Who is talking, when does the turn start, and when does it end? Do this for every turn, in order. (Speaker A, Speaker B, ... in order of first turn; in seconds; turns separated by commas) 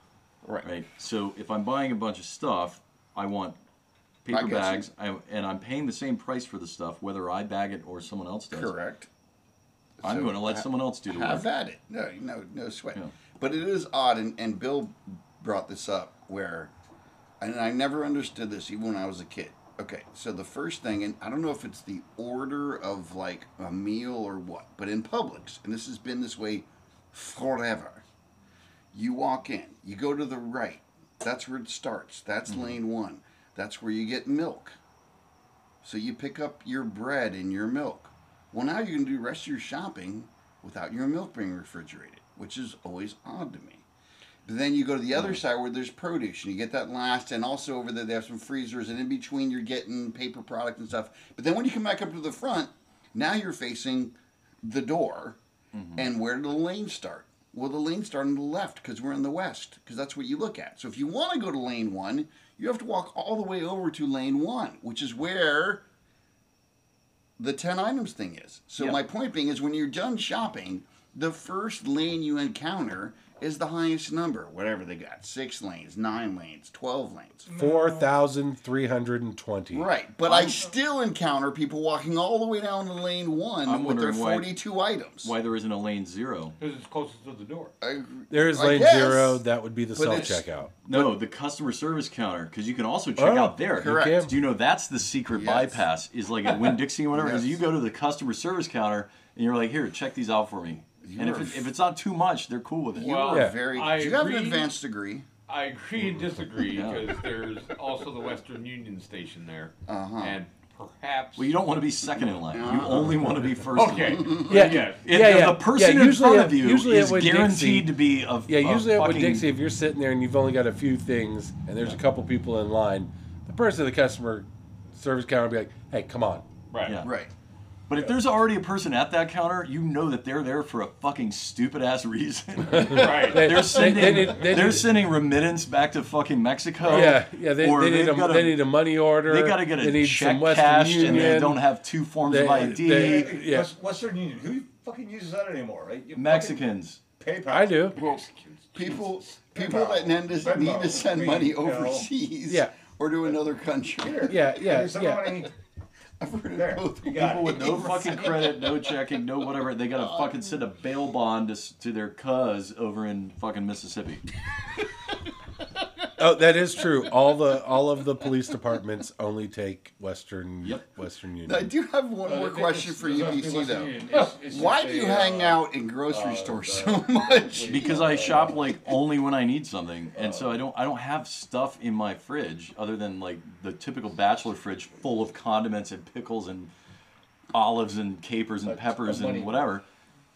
Speaker A: 0.4-0.7, Speaker B: 0.6-3.6, Speaker B: 4.2-8.7, Speaker A: 4.3-4.9, Speaker A: 8.5-9.1, Speaker A: 10.0-16.7, Speaker B: 10.0-11.4, Speaker A: 17.4-28.0, Speaker A: 28.9-34.8, Speaker B: 32.5-32.7, Speaker A: 35.8-43.8, Speaker A: 44.5-55.4, Speaker B: 45.1-45.4, Speaker B: 55.7-56.1, Speaker A: 56.0-65.8, Speaker A: 67.4-77.5, Speaker C: 77.5-78.1, Speaker D: 77.5-79.9, Speaker A: 79.7-85.3, Speaker C: 80.2-80.7, Speaker B: 83.6-84.5, Speaker B: 85.2-86.5, Speaker E: 86.6-87.7, Speaker A: 87.8-89.4, Speaker D: 88.3-90.8, Speaker A: 90.0-91.0, Speaker B: 90.8-103.1, Speaker D: 93.2-94.3, Speaker A: 93.8-94.3, Speaker A: 95.3-95.8, Speaker A: 97.1-97.6, Speaker A: 101.0-101.7, Speaker A: 102.9-105.2, Speaker E: 103.0-104.7, Speaker D: 103.3-103.6, Speaker E: 105.5-111.5, Speaker B: 106.6-107.1, Speaker A: 109.9-110.3, Speaker B: 111.3-119.5, Speaker A: 112.5-114.9, Speaker E: 113.7-115.0, Speaker D: 114.5-117.9, Speaker D: 118.5-126.5, Speaker E: 126.7-127.0, Speaker B: 126.8-127.2, Speaker A: 127.0-127.3, Speaker B: 127.9-138.7, Speaker D: 132.7-134.9, Speaker E: 132.9-133.8, Speaker D: 136.8-141.6, Speaker B: 139.2-143.3, Speaker D: 142.2-143.7, Speaker C: 142.7-148.2, Speaker B: 146.1-147.0, Speaker D: 147.5-148.0, Speaker A: 148.0-148.2, Speaker E: 148.0-148.3, Speaker A: 148.7-154.8, Speaker C: 148.8-152.1, Speaker C: 154.0-155.5, Speaker D: 154.2-155.3, Speaker A: 156.2-158.6, Speaker C: 156.5-158.5, Speaker B: 157.2-164.2, Speaker D: 166.2-171.7, Speaker A: 171.4-178.5, Speaker C: 172.2-178.7, Speaker B: 177.7-186.7, Speaker C: 180.1-180.6, Speaker B: 187.5-189.8, Speaker C: 188.6-189.7